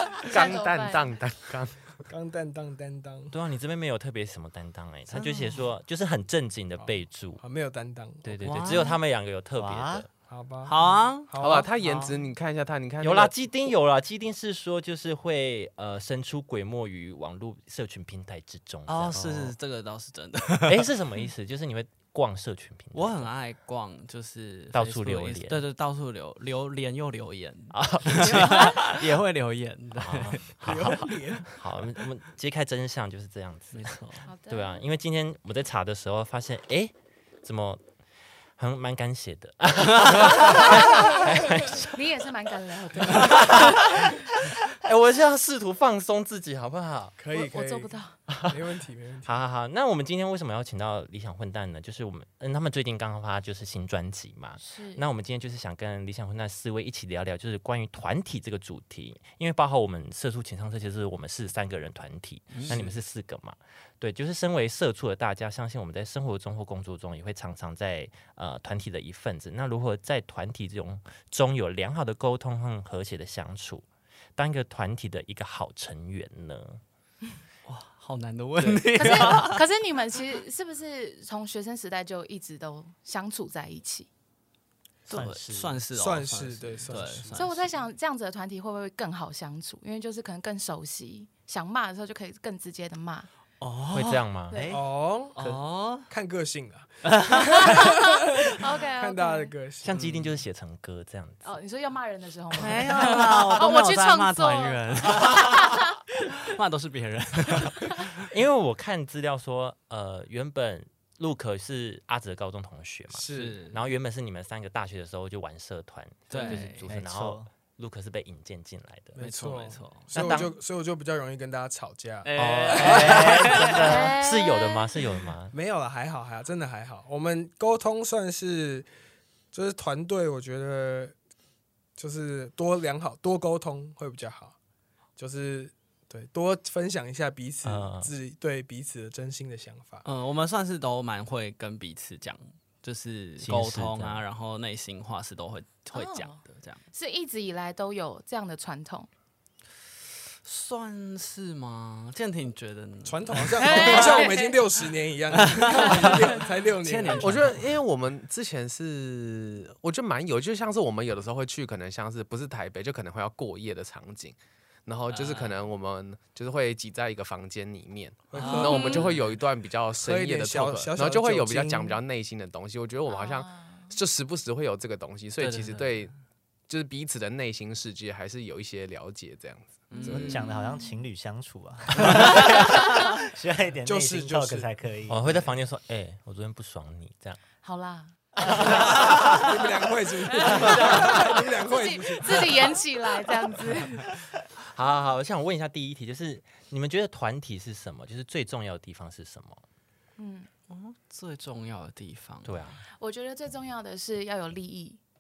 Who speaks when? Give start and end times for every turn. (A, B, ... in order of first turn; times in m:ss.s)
0:00.3-0:02.0 A
0:00.3-0:01.1 B
0:02.0-0:03.3 C
0:03.3-0:07.4 D
0:05.1-0:05.6 E
0:06.8-0:08.6 C
0:08.2-0:10.1 D
0:08.4-0:09.0 E
0:09.6-0:10.1 F
0:10.3-0:11.7 C
0:10.6-0:12.2 E
0:11.4-0:13.3 A
0:13.0-0:19.5 D
0:18.9-0:20.9 E
0:20.6-0:23.3 D
0:22.9-0:30.6 E
0:24.7-0:25.6 D
0:27.7-0:29.0 D
0:30.0-0:37.8 D
0:30.6-0:31.6 C
0:33.7-0:34.3 E
0:34.2-0:34.8 B
0:38.6-0:42.0 D
0:40.4-0:44.0 B
0:43.0-0:47.1 D
0:47.2-0:49.4 C
0:47.3-0:48.4 B
0:49.2-1:13.8 D
0:54.6-0:55.0 B
1:02.5-1:03.0 E
1:14.4-1:16.8 D
1:17.6-1:19.6 E
1:18.9-1:24.1 B
1:25.1-1:27.7 E
1:25.1-1:25.8 F
1:25.9-1:27.4 C
1:27.3-1:33.3 B
1:33.6-1:34.2 E
1:33.9-1:34.6 D
1:34.5-1:34.8 B
1:34.5-1:34.8 F
1:34.7-1:40.0 C
1:35.4-1:36.1 E
1:37.0-1:37.9 E
1:37.5-1:39.5 B
1:39.8-1:41.5 D
1:39.9-1:40.3 E
1:41.4-1:46.0 B
1:42.5-1:48.1 E
1:48.2-1:59.2 D
1:53.1-1:53.6 C
1:53.3-1:53.8 E
1:56.3-1:57.0 E
1:56.9-1:57.5 F
1:59.2-2:03.2 C
1:59.2-2:00.3 E
2:00.1-2:00.5 D
2:02.2-2:04.1 E
2:02.4-2:05.5 D
2:02.8-2:04.1 F
2:03.7-2:05.2 B
2:05.5-2:08.9 C
2:09.5-2:11.2 C
2:12.0-2:14.5 C
2:15.2-2:20.0 C
2:17.6-2:18.1 D
2:20.0-2:26.8 E
2:23.4-2:24.2 D
2:25.9-2:26.4 B
2:26.9-2:29.1 B
2:30.4-2:34.3 E
2:33.0-2:37.5 C
2:33.6-2:34.7 B
2:35.3-2:37.8 E
2:35.7-2:36.4 B
2:37.2-2:56.1 A
2:45.1-2:45.6 E
2:48.3-2:49.1 C
2:48.4-2:49.3 E
2:48.5-2:49.1 B
2:50.0-2:52.0 C
2:53.1-2:53.9 B
2:55.4-2:56.1 E
2:56.7-2:59.9 A
2:59.9-3:01.0 B
2:59.9-3:00.5 E
3:00.0-3:05.5 F
3:02.0-3:02.7 E
3:02.5-3:03.1 B
3:03.8-3:04.7 C
3:05.1-3:07.4 D
3:07.6-3:08.9 B
3:08.5-3:12.8 C
3:10.3-3:14.1 B
3:14.7-3:19.6 D
3:20.2-3:20.5 B
3:20.7-3:22.5 E
3:22.4-3:22.8 D
3:22.9-3:25.0 B